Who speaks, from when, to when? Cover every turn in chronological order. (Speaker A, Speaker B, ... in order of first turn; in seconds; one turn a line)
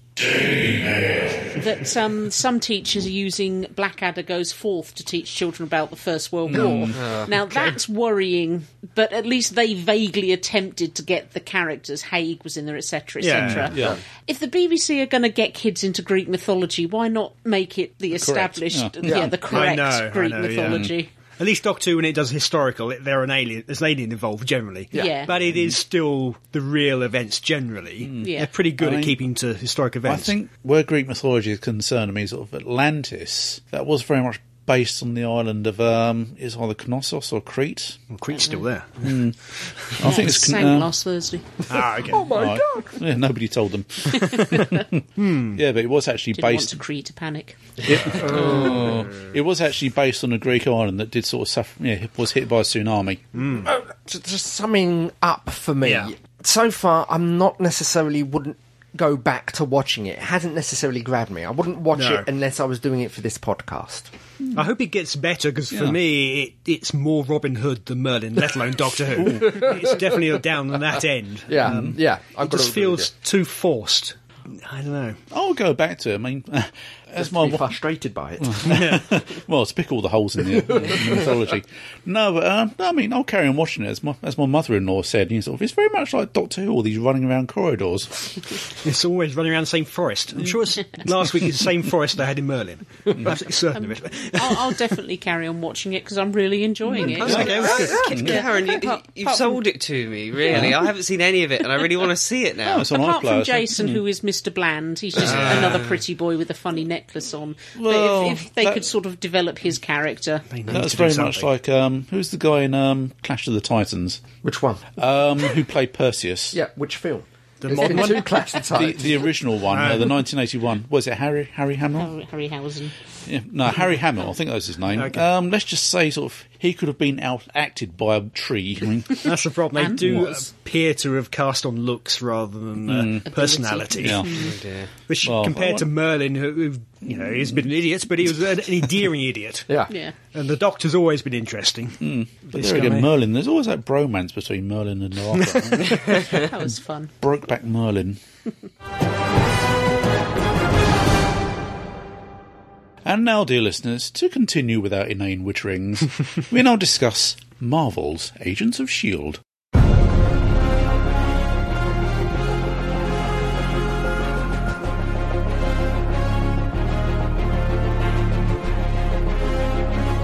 Speaker A: 0.1-1.6
Speaker B: 1.5-21.1
Speaker A: 6.5-7.1
Speaker C: 13.2-13.8
Speaker A: 13.3-14.0
Speaker A: 18.1-19.4
Speaker D: 19.0-19.4
Speaker C: 19.5-30.3
Speaker D: 24.9-25.2
Speaker B: 24.9-25.3
Speaker A: 25.4-25.8
Speaker A: 28.0-29.2
Speaker B: 28.2-28.5
Speaker A: 30.1-38.0
Speaker C: 38.1-39.2
Speaker B: 38.3-38.7
Speaker A: 39.0-40.9
Speaker B: 40.0-41.6
Speaker C: 41.7-42.3
Speaker D: 42.0-43.0
Speaker A: 42.2-46.8
Speaker C: 44.2-45.6
Speaker B: 46.3-47.6
Speaker A: 47.8-53.5
Speaker D: 48.0-49.0
Speaker C: 53.4-53.7
Speaker D: 53.6-64.1
Speaker C: 55.8-56.1
Speaker C: 61.9-62.2
Speaker C: 64.5-75.2
Speaker A: 65.7-66.0
Speaker D: 69.2-70.2
Speaker D: 71.5-73.1
Speaker A: 71.6-71.9
Speaker A: 75.3-77.7
Speaker D: 77.2-78.8
Speaker A: 78.4-88.3
Speaker C: 78.7-79.0
Speaker D: 80.6-81.3
Speaker C: 88.8-94.8
Speaker A: 93.1-93.4
Speaker B: 93.7-99.6
Speaker C: 97.0-98.1
Speaker E: 97.2-102.9
Speaker A: 97.2-98.4
Speaker D: 97.6-98.2
Speaker A: 100.5-100.8
Speaker A: 102.6-104.0
Speaker B: 102.9-110.5
Speaker E: 105.2-106.0
Speaker A: 105.2-105.7
Speaker A: 107.8-108.9
Speaker C: 110.5-111.5
Speaker A: 110.7-114.2
Speaker D: 114.4-114.8
Speaker A: 115.0-116.6
Speaker D: 116.5-119.2
Speaker C: 117.6-118.5
Speaker A: 118.7-122.1
Speaker C: 119.7-120.2
Speaker B: 122.0-122.9
Speaker A: 123.2-129.3
Speaker C: 124.9-125.2
Speaker C: 129.2-134.3
Speaker B: 129.8-130.5
Speaker A: 132.8-133.3
Speaker B: 133.2-134.5
Speaker A: 133.9-134.4
Speaker E: 134.3-134.9
Speaker C: 135.1-139.7
Speaker A: 135.2-135.9
Speaker A: 137.1-137.6
Speaker B: 139.9-140.1
Speaker C: 140.3-143.1
Speaker A: 142.0-148.2
Speaker C: 145.3-146.0
Speaker B: 146.3-147.1
Speaker A: 153.0-159.4